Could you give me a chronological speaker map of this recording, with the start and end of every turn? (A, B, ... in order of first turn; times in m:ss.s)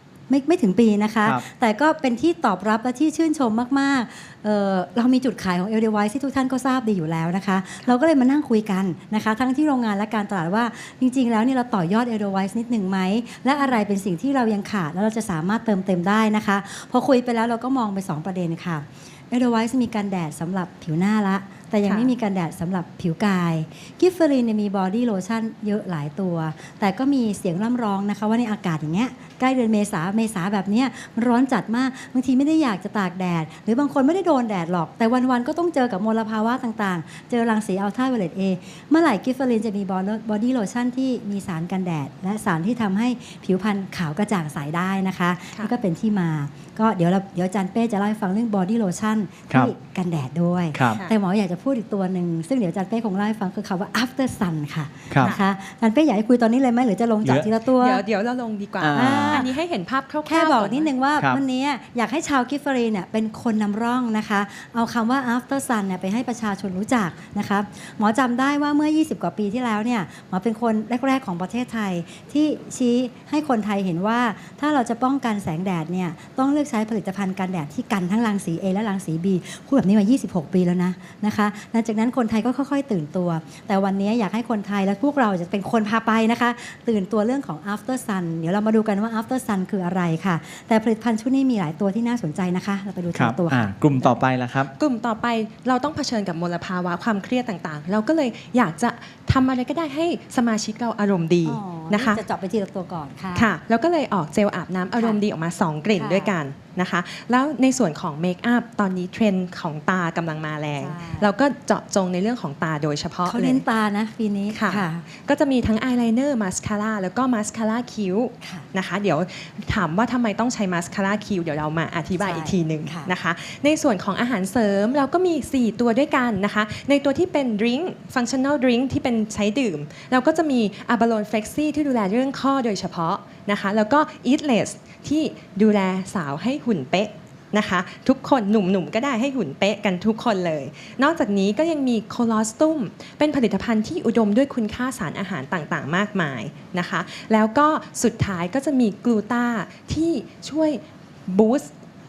0:00.3-0:58.0 A
0:21.8-0:22.1 B
0:50.7-0:51.0 C
0:55.1-0:55.4 C
0:57.2-0:57.5 C
0:57.7-1:00.9 B
0:58.8-0:59.5 C
0:58.9-0:59.5 A
1:00.3-1:34.1 A
1:33.1-1:34.7 C
1:34.8-1:42.2 B
1:41.4-1:43.5 A
1:43.4-1:53.7 B
1:44.9-1:45.2 A
1:46.0-1:46.4 A
1:50.8-1:51.3 A
1:53.2-1:55.0 A
1:54.5-2:31.7 B
2:02.2-2:03.1 A